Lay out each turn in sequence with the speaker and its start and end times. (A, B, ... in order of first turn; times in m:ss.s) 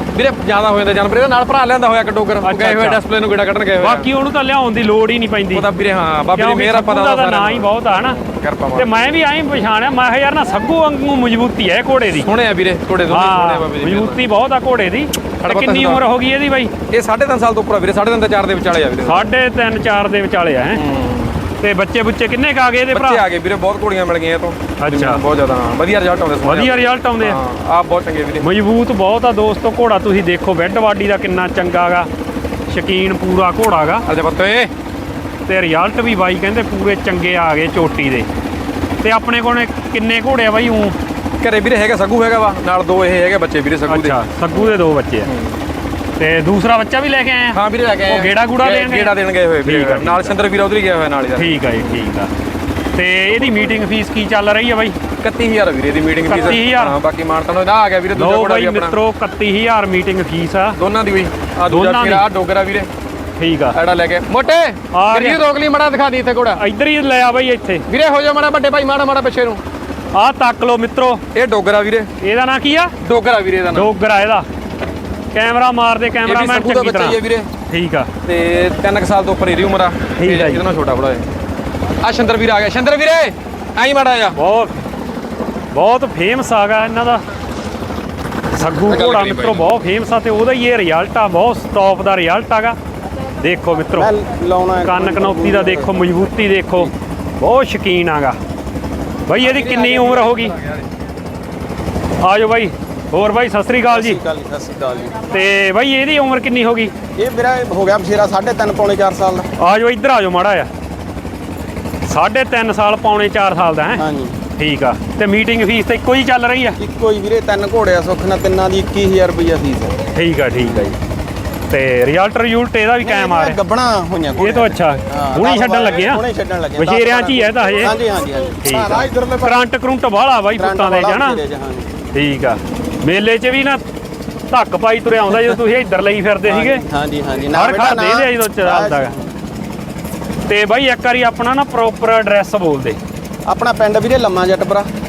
0:00.1-0:04.1 A
0:02.4-0:03.0 B
0:03.8-0:05.7 B
0:05.5-0:09.1 A
0:06.3-0:08.2 B
0:08.7-0:12.3 B
0:12.1-0:14.2 A
0:13.1-0:16.7 B
0:15.4-0:16.0 A
0:16.9-0:19.3 A
0:19.0-0:20.8 B
0:20.8-0:21.4 A
0:21.6-0:23.2 B
0:22.9-0:28.4 A
0:24.8-0:25.2 B
0:26.4-0:27.4 B
0:28.4-0:32.1 B
0:32.7-0:34.0 B
0:34.0-0:34.7 A
0:35.5-0:38.3 B
0:39.0-0:41.0 B
0:41.4-0:45.6 A
0:43.9-0:45.3 B
0:46.2-0:49.1 B
0:47.5-0:51.9 A
0:49.6-0:50.4 B
0:51.4-0:52.3 B
0:52.9-0:55.0 B
0:53.3-0:53.8 A
0:55.2-0:59.0 A
0:56.3-0:57.0 B
0:58.1-1:00.8 B
1:00.8-1:02.9 A
1:01.7-1:02.2 B
1:03.4-1:03.8 B
1:03.7-1:06.6 A
1:04.9-1:05.4 B
1:06.5-1:07.8 B
1:07.9-1:09.6 A
1:10.1-1:11.2 B
1:11.3-1:12.1 A
1:12.2-1:12.9 B
1:13.0-1:13.9 A
1:13.7-1:14.4 B
1:15.3-1:18.1 B
1:16.2-1:17.5 A
1:18.2-1:21.2 A
1:20.2-1:20.6 B
1:22.0-1:24.4 A
1:24.4-1:24.7 B
1:25.7-1:27.2 B
1:28.5-1:32.8 B
1:28.8-1:29.7 A
1:33.4-1:34.1 B
1:33.9-1:36.0 C
1:34.8-1:38.4 B
1:39.3-1:40.6 B
1:39.4-1:40.8 A
1:42.2-1:44.2 B
1:43.9-1:45.2 C
1:45.2-1:46.9 B
1:47.2-1:49.5 C
1:49.6-1:50.7 B
1:52.0-1:54.0 B
1:53.9-1:54.4 C
1:54.6-1:56.8 B
1:56.8-2:00.0 C
2:00.1-2:01.0 B
2:00.6-2:00.9 C
2:01.7-2:03.6 B
2:03.0-2:09.6 C
2:04.4-2:06.2 B
2:06.8-2:07.9 B
2:08.6-2:11.4 B
2:10.5-2:11.9 C
2:12.1-2:13.8 B
2:14.5-2:16.8 B
2:16.4-2:19.2 C
2:17.5-2:19.1 B
2:20.5-2:23.0 B
2:23.4-2:24.9 C